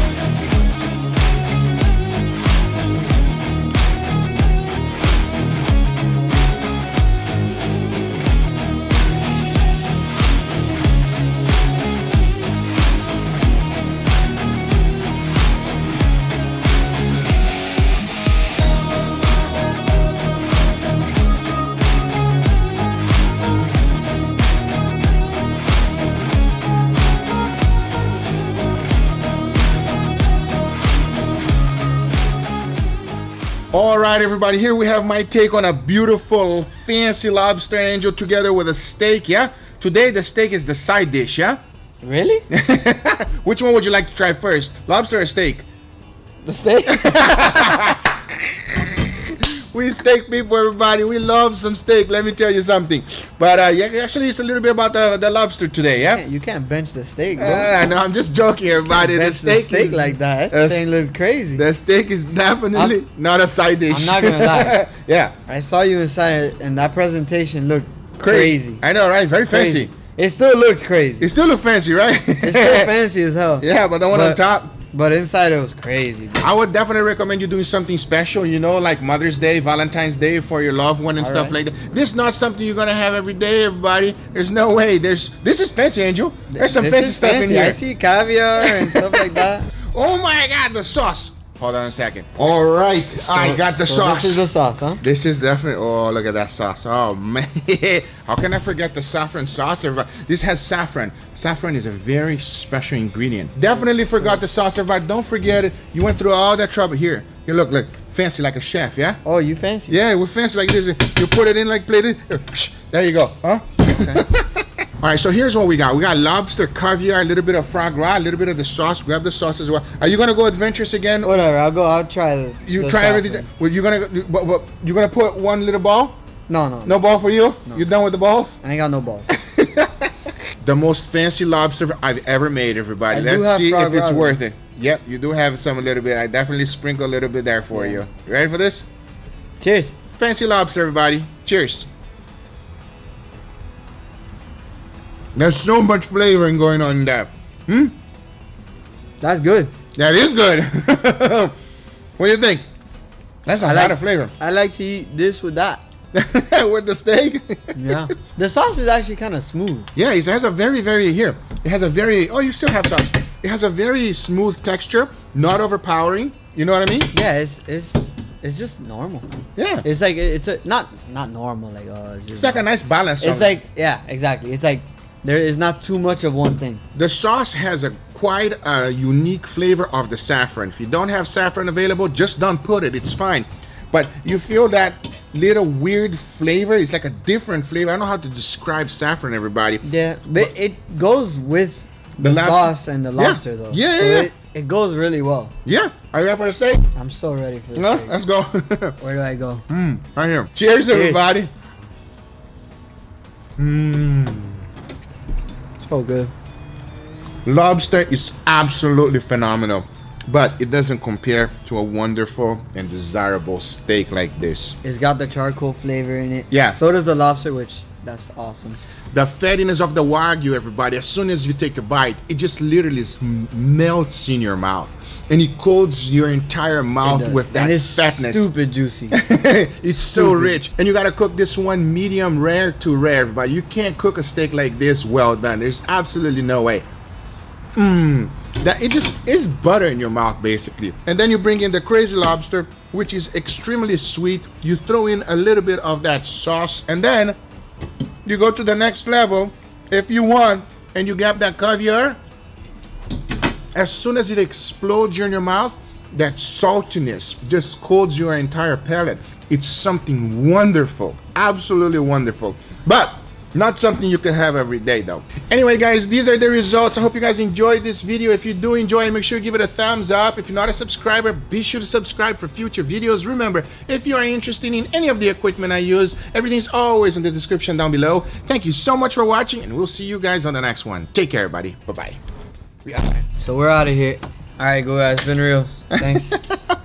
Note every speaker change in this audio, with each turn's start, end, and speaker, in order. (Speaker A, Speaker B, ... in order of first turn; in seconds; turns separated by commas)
Speaker A: 33.7-41.6, Speaker B: 42.0-42.4, Speaker A: 42.5-45.7, Speaker B: 46.4-47.3, Speaker A: 46.9-56.2, Speaker B: 56.1-57.7, Speaker A: 57.4-60.8, Speaker B: 58.9-61.6, Speaker A: 61.6-65.3, Speaker B: 63.9-64.8, Speaker B: 65.5-68.8, Speaker A: 68.2-69.9, Speaker B: 69.5-71.3, Speaker A: 71.2-72.9, Speaker B: 72.4-76.5, Speaker A: 73.6-74.7, Speaker A: 76.4-87.8, Speaker B: 81.2-81.5, Speaker B: 86.5-89.7, Speaker A: 88.6-89.4, Speaker A: 89.9-94.4, Speaker B: 93.2-95.0, Speaker A: 95.0-109.2, Speaker B: 103.7-104.4, Speaker B: 109.2-110.0, Speaker A: 109.9-121.3, Speaker B: 113.9-114.2, Speaker B: 121.2-123.5, Speaker A: 122.6-126.2, Speaker B: 126.5-127.0, Speaker A: 126.8-128.6, Speaker B: 128.6-129.3, Speaker A: 129.3-138.9, Speaker B: 133.1-134.4, Speaker B: 137.7-138.0, Speaker B: 139.6-139.9, Speaker A: 140.2-141.9, Speaker A: 145.3-147.9, Speaker B: 149.2-149.7, Speaker A: 149.9-151.5, Speaker A: 152.2-152.6, Speaker A: 153.4-154.3, Speaker B: 153.6-155.8, Speaker A: 156.1-157.8, Speaker B: 157.7-159.9, Speaker A: 159.9-167.1, Speaker B: 167.1-169.3, Speaker A: 169.6-169.8, Speaker B: 169.8-172.7, Speaker A: 172.3-173.6, Speaker B: 173.2-176.8, Speaker A: 176.9-189.8, Speaker B: 189.8-195.5, Speaker A: 192.2-194.3, Speaker A: 195.6-196.9, Speaker B: 196.9-198.1, Speaker A: 197.8-198.9, Speaker B: 199.0-199.6, Speaker A: 199.7-201.5, Speaker B: 200.9-201.2, Speaker A: 203.6-204.6, Speaker B: 205.8-206.3, Speaker A: 207.4-214.8, Speaker B: 214.8-218.8, Speaker A: 216.5-216.8, Speaker A: 219.1-228.5, Speaker B: 227.0-229.2, Speaker A: 229.1-236.8, Speaker B: 229.8-230.6, Speaker A: 237.8-247.4, Speaker A: 248.2-252.2, Speaker A: 253.7-282.2, Speaker A: 282.9-283.2, Speaker B: 283.3-286.4